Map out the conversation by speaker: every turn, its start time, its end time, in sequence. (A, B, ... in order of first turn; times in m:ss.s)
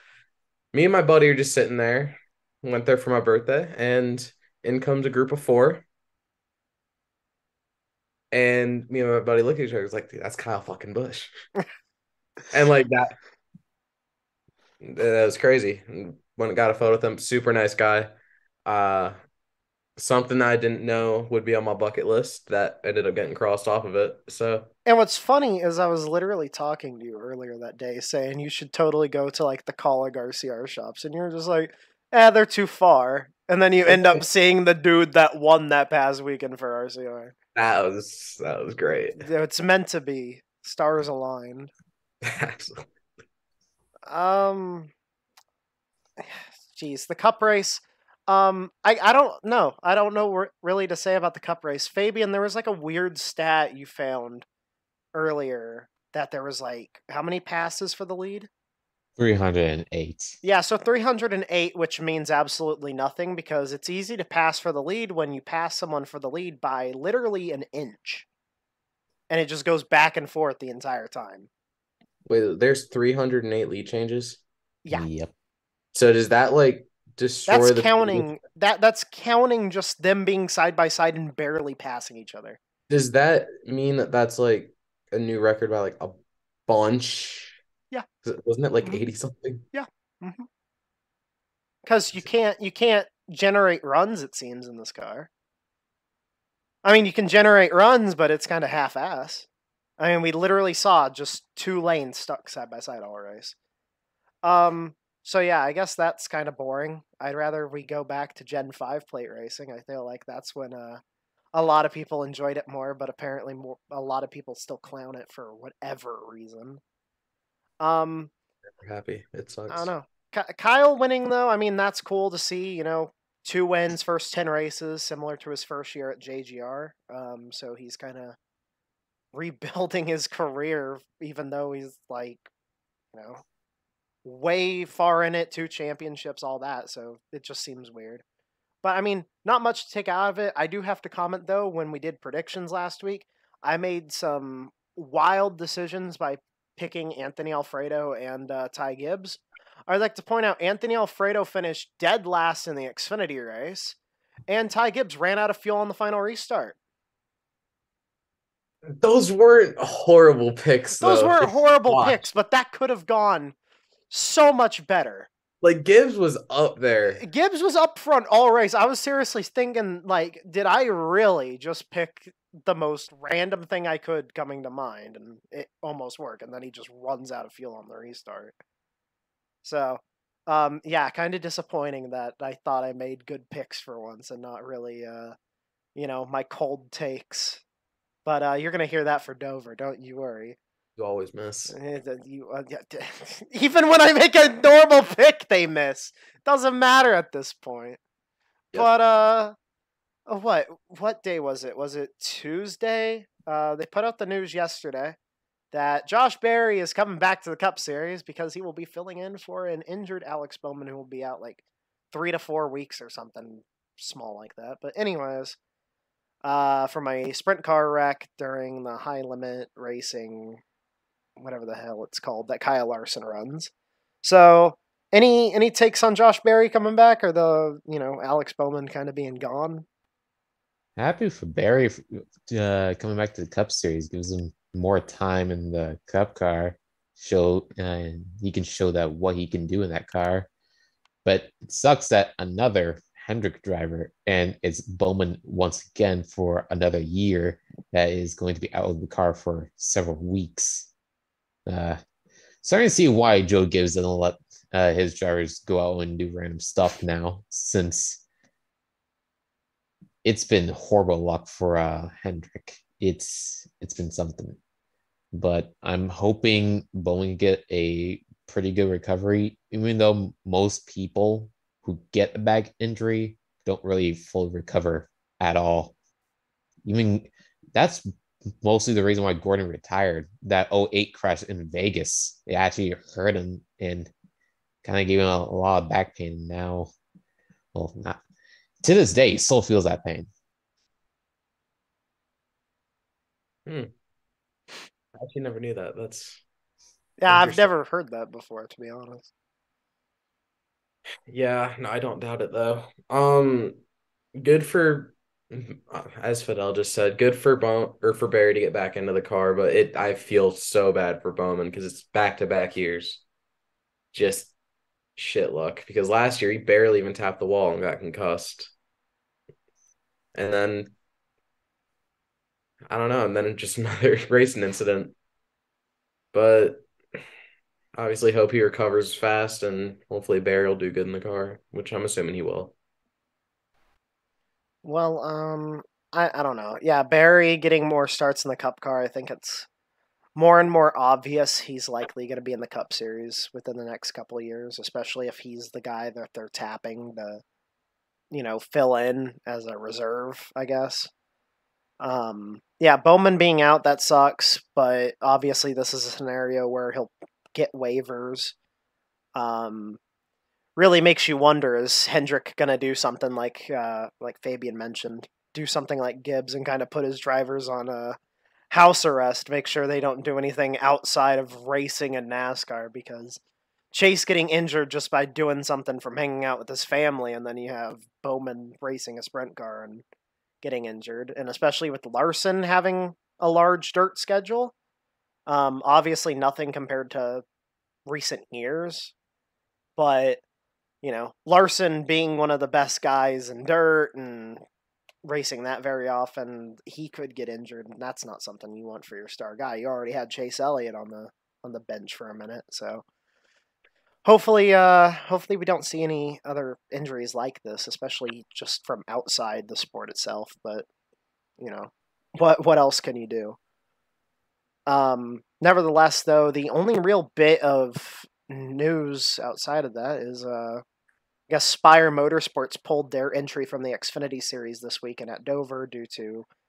0:00.7-0:05.8 A
0:08.3-0:11.3 A
0:12.5-0:13.1 A
0:14.8-0:18.1 A
0:18.6-0:19.2 A
0:20.0-0:24.7 A
0:24.8-0:37.3 B
0:33.9-0:34.2 A
0:37.5-0:39.2 A
0:39.2-0:41.7 B
0:42.2-0:42.8 A
0:44.1-0:44.9 B
0:46.2-0:54.4 B
0:55.1-0:58.5 B
0:59.2-1:00.4 C
1:00.4-1:08.3 B
1:09.3-1:11.5 B
1:12.2-1:14.4 A
1:14.9-1:15.3 C
1:15.9-1:18.3 A
1:17.5-1:22.6 B
1:22.9-1:27.6 A
1:28.2-1:29.6 A
1:29.7-1:30.5 B
1:31.8-1:35.3 B
1:36.8-1:39.5 B
1:40.0-1:43.5 B
1:44.4-1:51.0 B
1:51.5-1:56.8 B
1:57.8-1:58.3 B
1:58.8-1:59.9 A
1:59.7-2:08.4 B
2:09.3-2:12.5 B
2:13.1-2:13.4 B
2:14.2-2:18.2 B
2:18.8-2:34.0 B
2:34.5-2:36.8 B
2:39.0-2:42.3 A
2:41.0-2:43.5 B
2:44.1-2:45.3 B
2:45.6-2:47.2 A
2:47.2-2:58.5 B
2:59.6-3:05.3 B
3:06.0-3:07.6 B
3:08.2-3:10.6 B
3:11.0-3:11.7 A
3:11.7-3:18.0 B
3:18.7-3:19.5 B
3:20.3-3:25.2 B
3:25.7-3:35.6 B
3:36.4-3:40.6 B
3:41.4-3:43.7 B
3:44.2-3:49.8 B
3:51.0-4:00.5 C
4:01.2-4:10.9 C
4:11.6-4:12.0 C
4:12.6-4:18.2 C
4:20.2-4:24.6 C
4:25.3-4:35.9 C
4:36.8-4:38.1 C
4:38.6-4:44.1 C
4:44.8-4:46.9 C
4:47.7-4:48.2 C
4:48.8-4:50.3 C
4:55.2-4:56.4 A
4:57.2-4:59.3 B
4:57.3-4:57.7 A
5:01.3-5:03.8 A
5:04.3-5:13.2 A
5:14.1-5:14.5 A
5:15.2-5:18.7 A
5:20.3-5:20.9 A
5:22.9-5:25.1 A
5:26.3-5:26.9 A
5:27.9-5:32.7 A
5:34.8-5:39.7 B
5:40.4-5:47.4 B
5:48.3-5:51.1 B
5:52.0-5:58.5 B
5:59.3-6:00.0 B
6:00.8-6:08.2 B
6:08.7-6:13.4 B
6:13.9-6:20.0 B
6:20.6-6:24.7 B
6:25.5-6:27.4 B
6:28.0-6:29.1 B
6:30.0-6:30.4 B
6:31.0-6:34.6 B
6:35.2-6:43.0 B
6:44.2-6:50.8 B
6:51.6-6:53.6 B
6:54.9-7:00.8 B
7:01.5-7:06.4 B